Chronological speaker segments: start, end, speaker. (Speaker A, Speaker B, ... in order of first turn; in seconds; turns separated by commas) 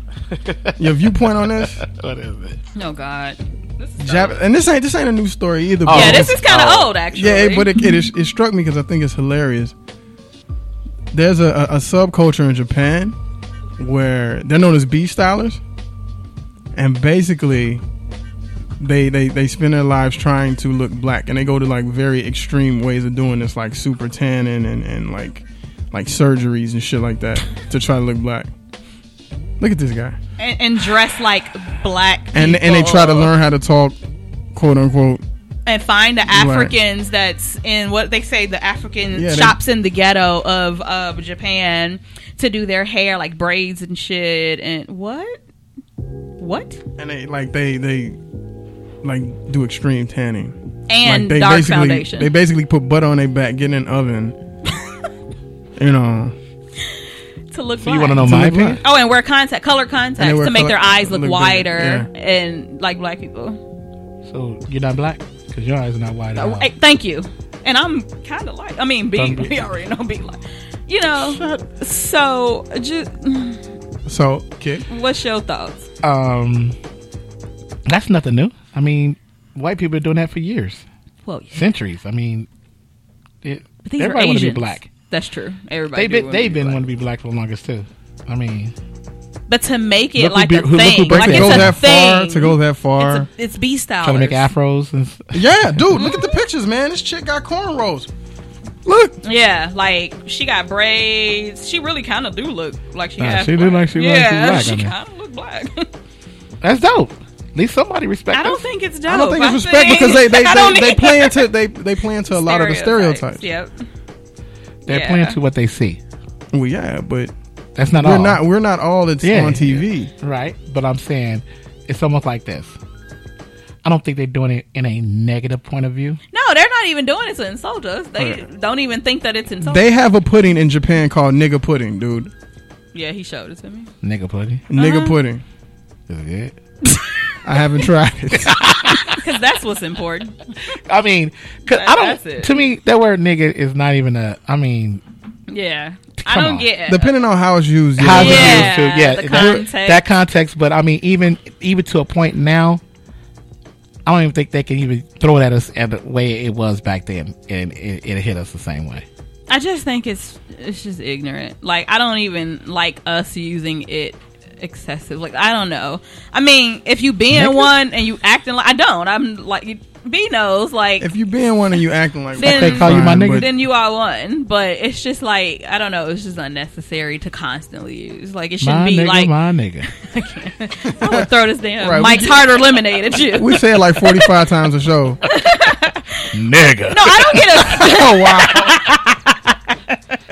Speaker A: 0.3-2.6, Speaker B: 0.8-1.8, Speaker C: 2.7-4.4, Speaker B: 4.0-6.4, Speaker A: 5.8-6.9, Speaker C: 5.9-7.7, Speaker B: 7.1-9.7, Speaker B: 11.1-13.2, Speaker B: 13.8-15.6, Speaker B: 16.7-17.8, Speaker B: 18.8-28.5, Speaker B: 29.6-30.2, Speaker C: 30.4-33.3, Speaker B: 32.3-34.0, Speaker B: 34.5-35.2, Speaker C: 35.6-45.4, Speaker B: 36.3-36.7, Speaker B: 39.1-39.6, Speaker C: 46.4-46.8, Speaker B: 47.0-48.2, Speaker B: 49.0-54.4, Speaker C: 50.9-52.3, Speaker B: 55.8-56.3, Speaker C: 57.5-63.6, Speaker A: 57.8-58.8, Speaker B: 58.2-58.8, Speaker B: 60.2-62.1, Speaker A: 64.2-66.7, Speaker C: 66.3-73.6, Speaker A: 69.1-69.7, Speaker B: 71.1-71.7, Speaker B: 74.0-74.8, Speaker C: 74.9-75.9, Speaker A: 76.0-76.8, Speaker A: 77.9-80.8, Speaker C: 81.2-81.6, Speaker A: 81.5-82.5, Speaker A: 83.4-84.9, Speaker C: 83.8-86.8, Speaker A: 86.0-88.7, Speaker C: 89.5-94.5, Speaker A: 90.2-91.7, Speaker B: 91.1-93.3, Speaker A: 94.0-95.8, Speaker B: 95.3-98.1, Speaker C: 96.0-96.3, Speaker B: 98.8-99.1, Speaker C: 99.2-105.9, Speaker A: 103.2-104.9, Speaker A: 106.6-108.6, Speaker C: 108.3-111.4, Speaker B: 109.1-113.5, Speaker C: 112.3-113.7, Speaker A: 114.8-116.0, Speaker C: 114.9-115.4, Speaker B: 116.5-117.3, Speaker A: 117.8-118.4, Speaker B: 118.0-120.1, Speaker A: 119.2-122.8, Speaker A: 123.8-126.2, Speaker C: 126.3-129.8, Speaker B: 129.6-132.3, Speaker C: 132.9-133.9, Speaker A: 134.0-134.6, Speaker B: 134.7-135.4, Speaker C: 134.8-135.1, Speaker A: 136.1-136.5, Speaker B: 137.4-138.6, Speaker A: 138.3-139.2, Speaker C: 139.1-140.3, Speaker A: 140.9-145.0, Speaker C: 141.7-142.6, Speaker C: 145.5-147.1, Speaker A: 146.2-146.7, Speaker B: 146.9-148.7, Speaker A: 148.0-152.8, Speaker C: 148.2-150.0, Speaker B: 149.3-149.6, Speaker A: 154.1-159.0, Speaker C: 159.5-171.1, Speaker A: 167.3-167.7, Speaker B: 171.0-173.5, Speaker C: 172.4-179.3, Speaker A: 172.4-173.5, Speaker A: 178.6-179.9, Speaker C: 179.9-184.3, Speaker B: 181.0-181.3, Speaker B: 181.8-182.4, Speaker B: 183.3-185.2, Speaker C: 185.2-186.3, Speaker A: 186.3-187.8, Speaker C: 186.9-190.2, Speaker B: 187.7-188.7, Speaker A: 188.5-188.8